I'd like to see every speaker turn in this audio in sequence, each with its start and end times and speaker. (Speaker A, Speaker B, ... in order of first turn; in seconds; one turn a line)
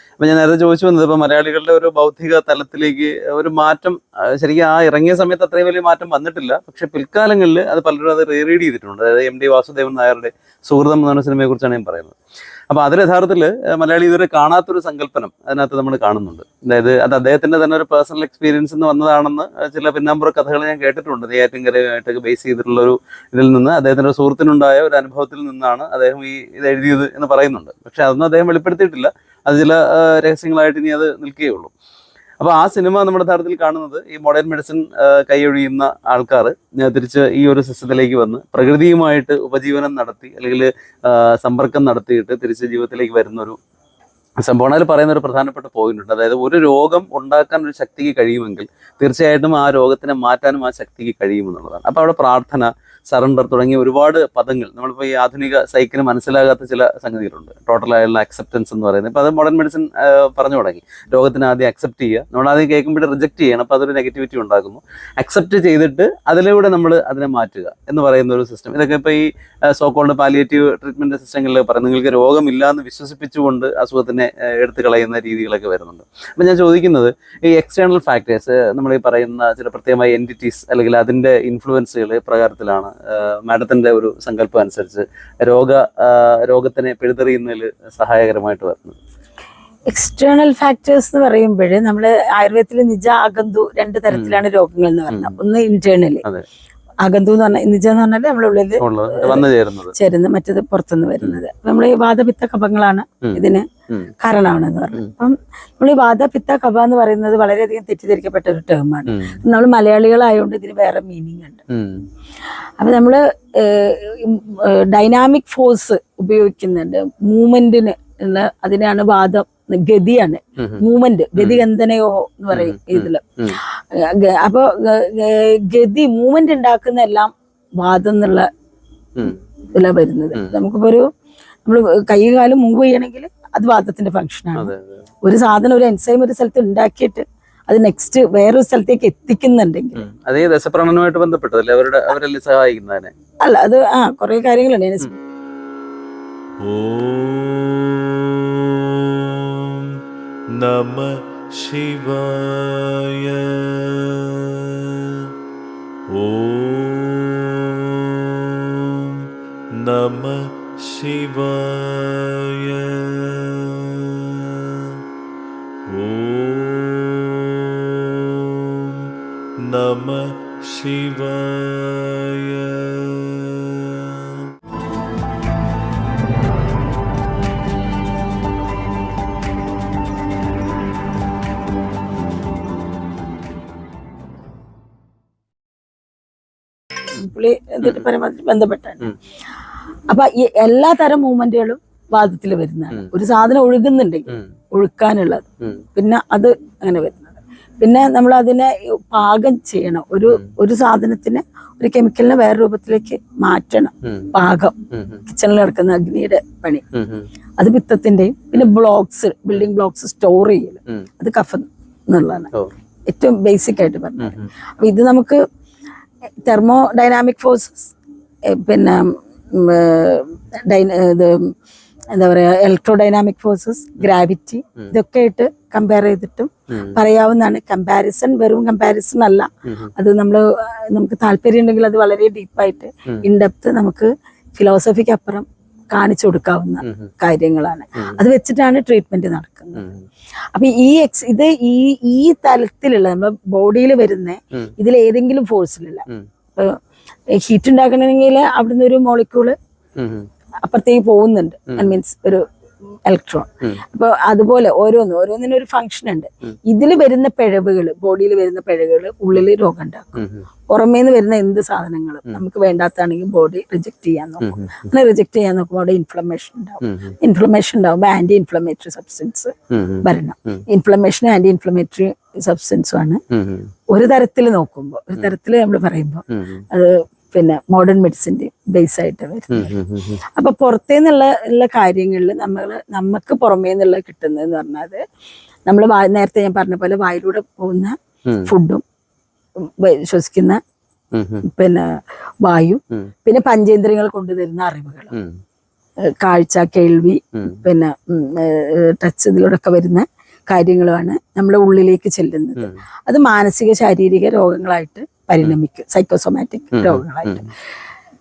Speaker A: 0.2-12.1
Speaker A: 12.7-31.7
Speaker A: 32.4-43.6
Speaker A: 44.4-89.0
Speaker B: 89.9-96.2
Speaker A: 94.1-94.4
Speaker A: 95.1-95.4
Speaker B: 97.0-103.6
Speaker A: 98.8-99.9
Speaker A: 103.2-104.1
Speaker B: 104.2-111.6
Speaker A: 109.1-109.4
Speaker A: 111.7-112.0
Speaker B: 112.8-128.5
Speaker A: 121.3-121.6
Speaker A: 122.5-123.6
Speaker B: 129.8-131.1
Speaker B: 131.7-134.7
Speaker A: 134.6-135.0
Speaker B: 135.2-140.0
Speaker A: 140.0-143.1
Speaker B: 143.4-145.1
Speaker C: 146.6-150.0
Speaker C: 150.5-155.3
Speaker C: 156.1-165.0
Speaker C: 165.9-174.5
Speaker B: 187.2-189.0
Speaker B: 190.1-206.8
Speaker A: 204.0-204.3
Speaker A: 204.9-205.2
Speaker A: 206.9-207.3
Speaker B: 207.6-212.5
Speaker B: 213.1-215.4
Speaker A: 214.2-214.5
Speaker B: 216.4-217.9
Speaker B: 218.5-221.5
Speaker B: 222.1-239.8
Speaker A: 226.7-227.0
Speaker A: 229.7-229.9
Speaker A: 236.8-237.1
Speaker A: 239.7-240.1
Speaker B: 240.5-246.0
Speaker B: 247.3-249.6
Speaker A: 250.0-250.3
Speaker B: 250.6-252.4
Speaker A: 251.7-252.0
Speaker B: 253.1-273.2
Speaker A: 260.1-260.4
Speaker A: 264.4-264.9
Speaker A: 266.8-267.1
Speaker A: 269.7-270.6
Speaker A: 273.3-273.7
Speaker B: 273.9-279.7
Speaker A: 276.3-276.6
Speaker A: 279.5-280.2
Speaker B: 280.4-285.0
Speaker B: 285.7-287.9
Speaker A: 288.3-288.5
Speaker B: 288.5-288.8
Speaker B: 289.6-290.6
Speaker A: 291.1-291.4
Speaker B: 291.4-295.1
Speaker A: 295.1-295.4
Speaker B: 296.1-307.4
Speaker A: 297.4-297.6
Speaker A: 306.7-307.4